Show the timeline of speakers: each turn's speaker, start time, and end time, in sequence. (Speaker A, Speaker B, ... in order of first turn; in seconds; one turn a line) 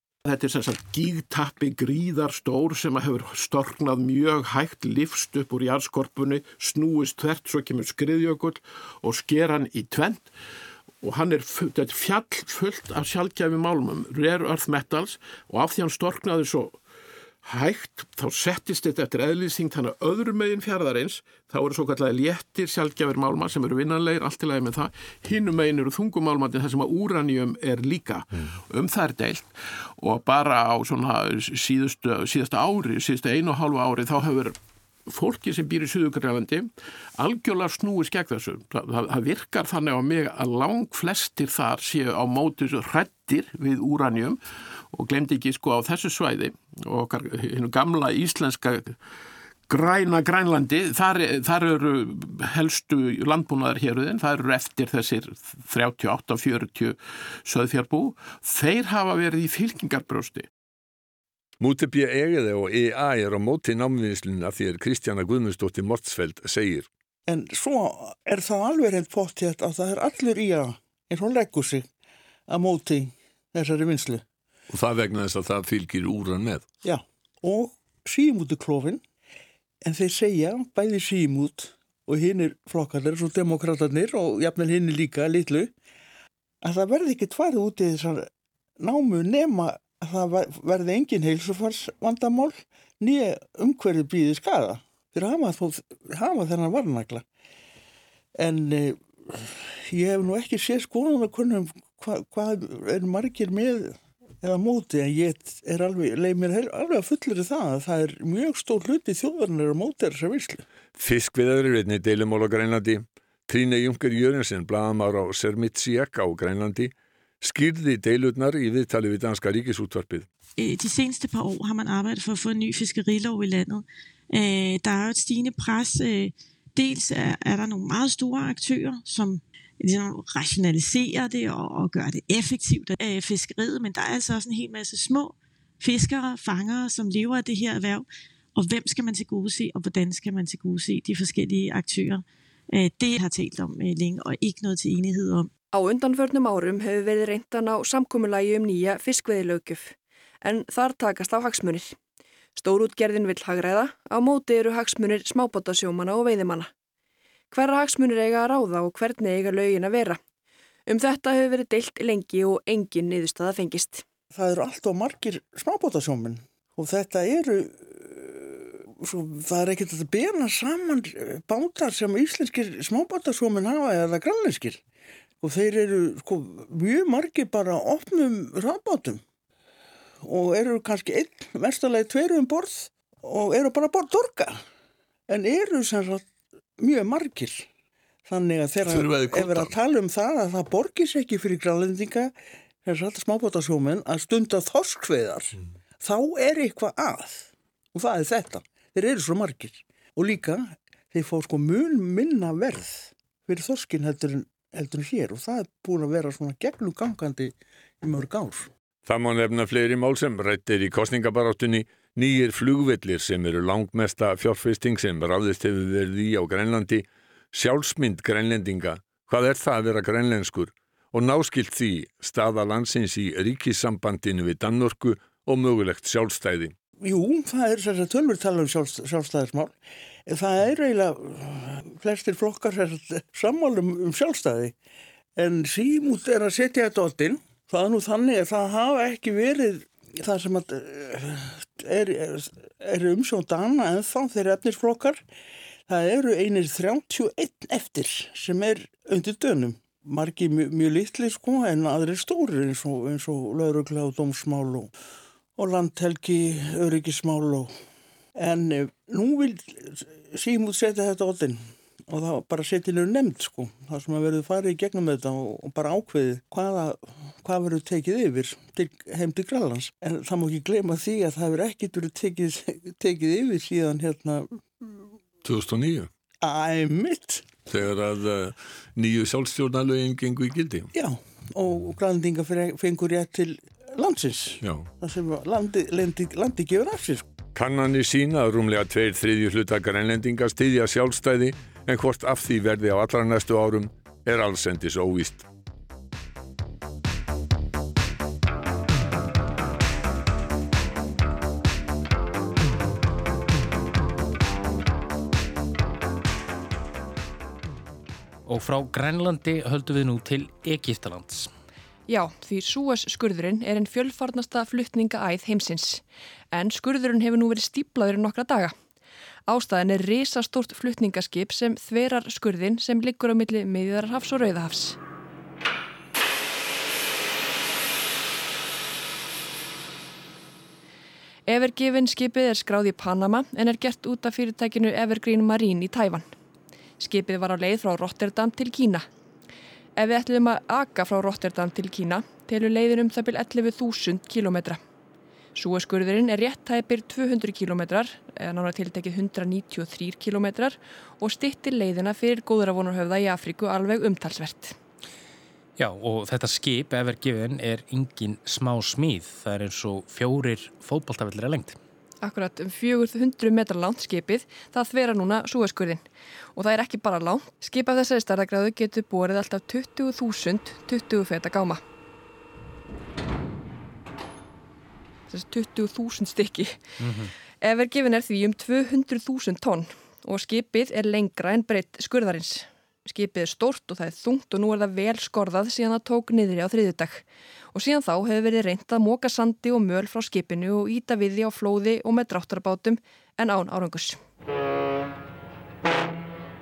Speaker A: 0.2-10.3
Speaker A: 11.0-16.8
Speaker A: 17.4-44.4
Speaker A: 44.9-49.0
Speaker A: 49.7-60.5
Speaker B: 61.6-66.9
Speaker C: 67.3-71.9
Speaker C: 72.5-74.2
Speaker B: 74.7-76.6
Speaker C: 76.8-79.0
Speaker C: 79.8-85.7
Speaker C: 86.6-88.3
Speaker C: 88.8-97.2
Speaker C: 98.4-110.7
Speaker B: 111.0-120.3
Speaker D: 120.6-145.5
Speaker E: 145.7-152.0
Speaker E: 152.6-156.7
Speaker E: 157.5-160.2
Speaker E: 160.9-164.0
Speaker C: 164.3-174.8
Speaker C: 175.4-179.2
Speaker C: 180.2-184.6
Speaker C: 185.3-186.3
Speaker C: 186.8-187.7
Speaker C: 188.3-192.3
Speaker B: 188.9-189.7
Speaker C: 192.8-208.7
Speaker B: 209.1-226.7
Speaker C: 227.0-229.8
Speaker C: 230.3-234.8
Speaker C: 235.4-245.2
Speaker C: 245.9-254.9
Speaker C: 255.6-257.7
Speaker C: 258.4-275.1
Speaker B: 275.4-276.1
Speaker C: 276.4-277.5
Speaker B: 277.7-280.9
Speaker C: 280.9-287.3
Speaker B: 284.6-284.9
Speaker B: 287.6-295.5
Speaker F: 308.5-311.5
Speaker E: 312.1-318.7
Speaker E: 319.5-325.0
Speaker E: 331.5-336.3
Speaker E: 337.0-339.1
Speaker E: 340.0-344.8
Speaker E: 345.6-354.8
Speaker F: 355.8-361.8
Speaker E: 362.2-366.0
Speaker E: 366.6-371.8
Speaker E: 375.3-376.8
Speaker F: 377.0-377.3
Speaker E: 377.6-394.2